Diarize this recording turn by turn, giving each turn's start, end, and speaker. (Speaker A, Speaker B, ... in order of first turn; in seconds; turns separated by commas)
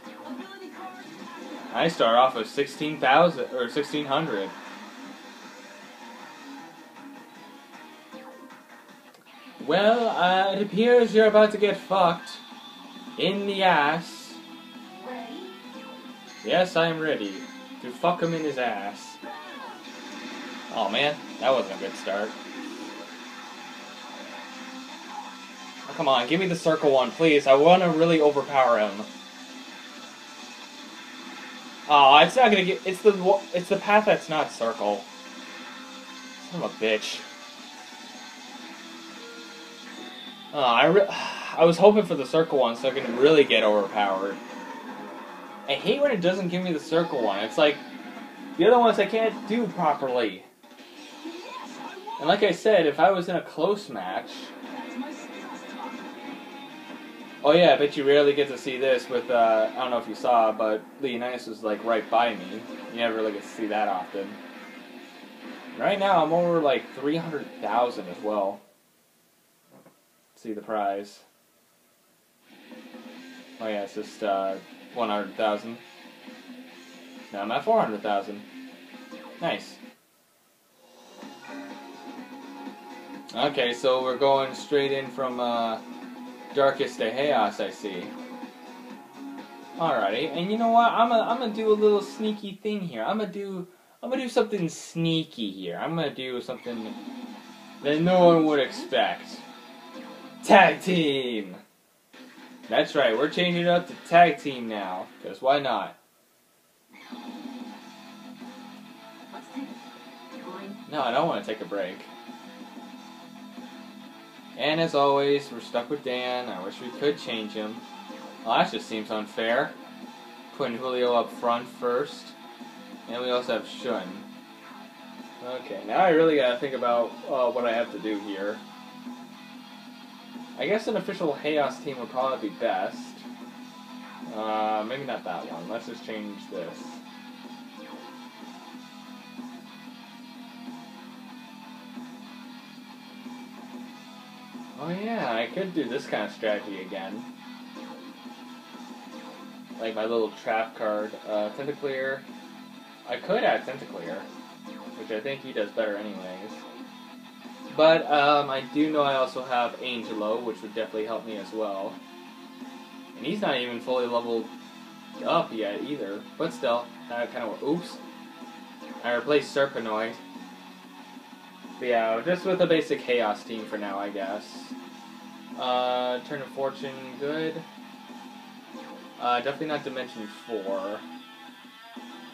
Speaker A: 0.2-1.7, Speaker B: 1.7-4.5, Speaker B: 9.6-12.4, Speaker B: 13.2-14.4, Speaker A: 15.0-15.5, Speaker B: 16.4-19.2, Speaker B: 20.7-22.4, Speaker B: 25.9-29.1, Speaker B: 31.9-35.1, Speaker B: 36.4-37.2, Speaker B: 40.5-44.4, Speaker B: 45.7-47.9, Speaker B: 48.6-50.5, Speaker A: 51.2-52.5, Speaker B: 52.2-54.5, Speaker A: 54.7-56.3, Speaker B: 57.4-64.4, Speaker B: 65.7-68.6, Speaker B: 70.3-71.2, Speaker B: 73.6-75.8, Speaker B: 77.3-78.5, Speaker B: 79.4-79.8, Speaker B: 83.3-85.8, Speaker B: 86.5-88.1, Speaker B: 89.8-97.0, Speaker A: 97.8-99.0, Speaker B: 97.8-99.4, Speaker B: 100.4-101.6, Speaker B: 102.7-106.0, Speaker A: 109.3-109.8, Speaker A: 110.4-110.8, Speaker B: 110.9-112.1, Speaker B: 114.6-117.8, Speaker B: 118.4-119.8, Speaker B: 120.5-122.3, Speaker B: 123.1-124.3, Speaker B: 125.4-128.6, Speaker B: 130.6-133.2, Speaker B: 134.3-137.0, Speaker B: 144.8-147.3, Speaker B: 149.8-152.3, Speaker B: 153.1-154.3, Speaker B: 154.9-156.6, Speaker B: 157.7-162.0, Speaker B: 163.1-164.5, Speaker B: 165.2-168.0, Speaker B: 169.0-170.2, Speaker B: 171.8-174.7, Speaker B: 175.6-177.6, Speaker B: 179.2-181.1